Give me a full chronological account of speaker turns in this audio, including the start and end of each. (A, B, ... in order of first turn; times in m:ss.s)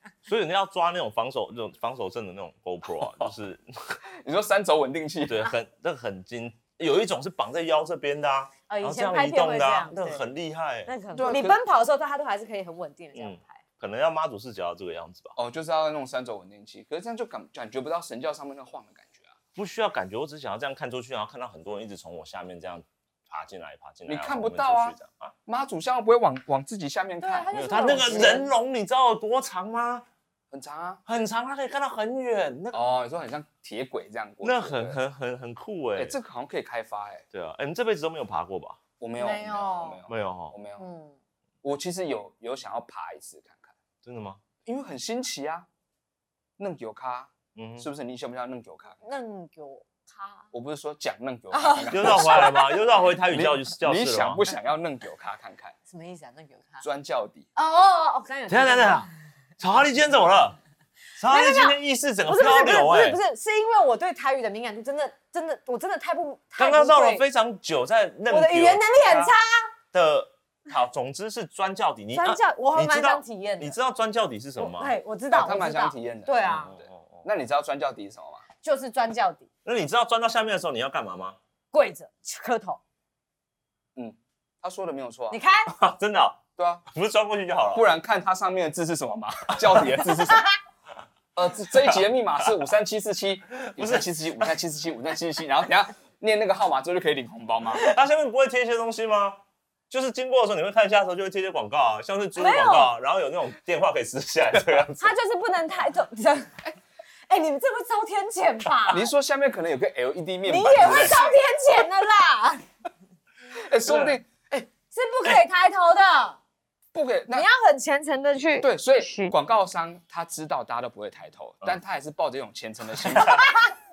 0:00.2-0:04.0 A
0:04.2-0:05.5 B
0:05.3-0:10.9 A
0:08.7-0:10.2 C
0:10.9-0:13.6 C
0:11.2-0:11.6 B
0:13.2-0:15.4 A
0:15.4-0:19.3 B
0:19.6-0:25.4 A
0:24.1-0:28.4 B
0:27.2-0:28.5 C
0:27.5-0:30.1 A
0:30.5-0:31.0 B
0:31.1-0:32.8 A
0:32.7-0:35.0 B
0:34.4-0:36.2 A
0:36.0-0:37.2 B
0:37.3-0:38.8 A
0:39.0-0:40.8 B
0:39.2-0:40.0 C
0:40.1-0:40.6 A
0:40.8-0:41.2 C
0:41.6-0:43.8 B
0:44.0-0:44.4 A
0:44.7-0:45.7 B
0:46.6-0:49.0 B
0:47.6-0:47.9 A
0:49.0-0:50.5 C
0:50.5-0:52.6 B
0:51.5-0:52.8 C
0:51.9-0:54.5 A
0:53.3-0:55.8 B
0:55.9-0:56.8 C
0:56.8-0:57.5 B
0:57.6-0:59.1 C
0:58.5-1:00.6 A
1:01.2-1:03.2 A
1:01.3-1:07.2 C
1:06.6-1:09.3 A
1:08.3-1:09.7 C
1:09.9-1:14.9 A
1:12.1-1:13.8 C
1:14.6-1:16.7 C
1:15.3-1:18.4 B
1:16.4-1:17.3 A
1:18.6-1:19.5 C
1:19.6-1:21.4 A
1:21.7-1:22.8 C
1:24.0-1:25.4 B
1:25.3-1:25.7 C
1:25.7-1:27.9 A
1:26.6-1:26.8 B
1:27.8-1:30.5 B
1:30.3-1:30.5 C
1:31.4-1:37.8 B
1:33.7-1:34.5 A
1:37.8-1:45.2 A
1:42.4-1:42.9 C
1:45.0-1:46.7 C
1:47.3-1:49.1 C
1:48.9-1:51.3 B
1:50.4-1:52.6 C
1:53.5-1:54.7 B
1:53.8-1:54.2 A
1:54.9-1:56.4 C
1:56.9-1:57.5 B
1:57.3-1:59.3 C
1:58.6-2:03.5 B
2:03.0-2:03.5 A
2:03.3-2:03.6 C